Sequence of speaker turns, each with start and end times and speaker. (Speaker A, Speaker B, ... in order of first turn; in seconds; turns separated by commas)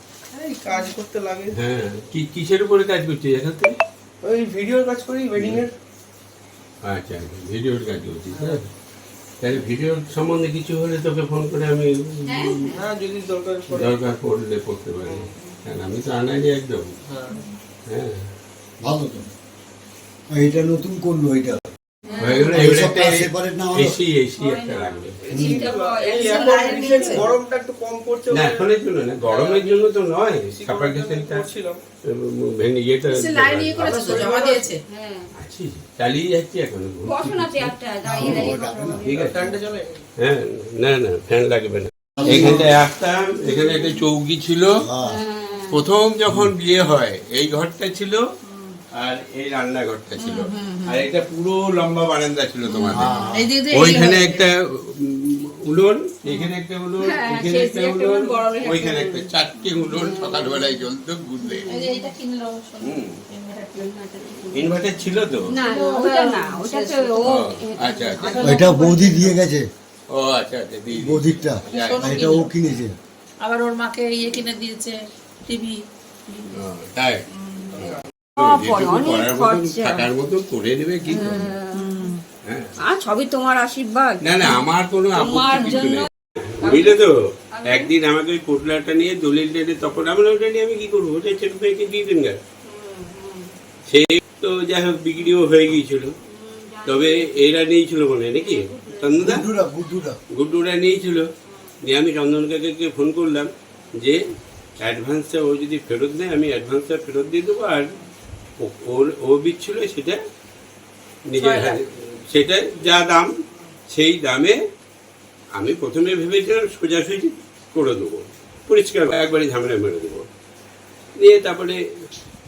Speaker A: 0.3-1.6, Speaker B: 1.5-3.8, Speaker A: 4.2-5.7, Speaker B: 5.4-5.6, Speaker B: 6.8-8.7, Speaker A: 8.3-8.6, Speaker B: 9.4-12.7, Speaker C: 12.2-12.8, Speaker A: 12.7-14.0, Speaker B: 13.7-16.9, Speaker A: 15.0-15.3, Speaker A: 17.1-17.4, Speaker B: 17.9-18.2, Speaker D: 18.8-19.3, Speaker D: 20.3-21.6, Speaker C: 22.1-22.5, Speaker B: 22.2-25.2, Speaker D: 22.5-23.9, Speaker E: 24.4-27.3, Speaker A: 25.2-28.7, Speaker D: 25.3-25.6, Speaker C: 26.2-27.2, Speaker B: 28.3-31.5, Speaker A: 29.2-29.9, Speaker A: 30.5-31.8, Speaker B: 32.0-34.3, Speaker C: 33.1-34.8, Speaker A: 33.8-34.6, Speaker E: 34.9-35.3, Speaker B: 35.4-39.5, Speaker E: 37.0-39.3, Speaker D: 38.0-39.0, Speaker A: 39.1-39.9, Speaker B: 40.2-44.8, Speaker D: 42.2-42.8, Speaker E: 43.5-43.9, Speaker D: 44.8-45.2, Speaker E: 45.1-45.8, Speaker B: 45.7-48.2, Speaker B: 48.9-61.8, Speaker C: 50.2-51.0, Speaker D: 52.9-53.5, Speaker C: 53.1-54.5, Speaker E: 56.3-59.3, Speaker E: 59.9-60.6, Speaker E: 61.4-62.0, Speaker C: 61.7-63.9, Speaker B: 62.8-63.2, Speaker E: 63.7-64.8, Speaker B: 64.5-65.5, Speaker E: 65.5-68.7, Speaker C: 65.6-67.3, Speaker B: 67.2-68.5, Speaker C: 68.2-69.1, Speaker D: 68.4-69.7, Speaker B: 70.1-72.3, Speaker D: 70.9-73.0, Speaker C: 71.7-72.5, Speaker C: 73.4-75.8, Speaker E: 76.3-76.6, Speaker B: 76.5-77.2, Speaker A: 77.7-78.0, Speaker B: 77.8-81.5, Speaker E: 78.4-80.1, Speaker E: 81.1-81.9, Speaker C: 81.7-82.2, Speaker B: 82.4-82.7, Speaker E: 82.8-86.1, Speaker B: 84.2-92.4, Speaker E: 86.6-87.0, Speaker E: 87.5-87.9, Speaker E: 92.6-93.5, Speaker B: 93.9-96.1, Speaker E: 96.2-97.3, Speaker B: 96.8-99.5, Speaker E: 98.4-99.4, Speaker D: 99.2-100.2, Speaker B: 100.3-101.3, Speaker B: 101.8-104.2, Speaker B: 104.8-107.9, Speaker B: 108.6-110.2, Speaker B: 111.3-113.3, Speaker C: 111.4-111.8, Speaker B: 113.9-114.6, Speaker B: 115.5-120.3, Speaker B: 121.2-121.8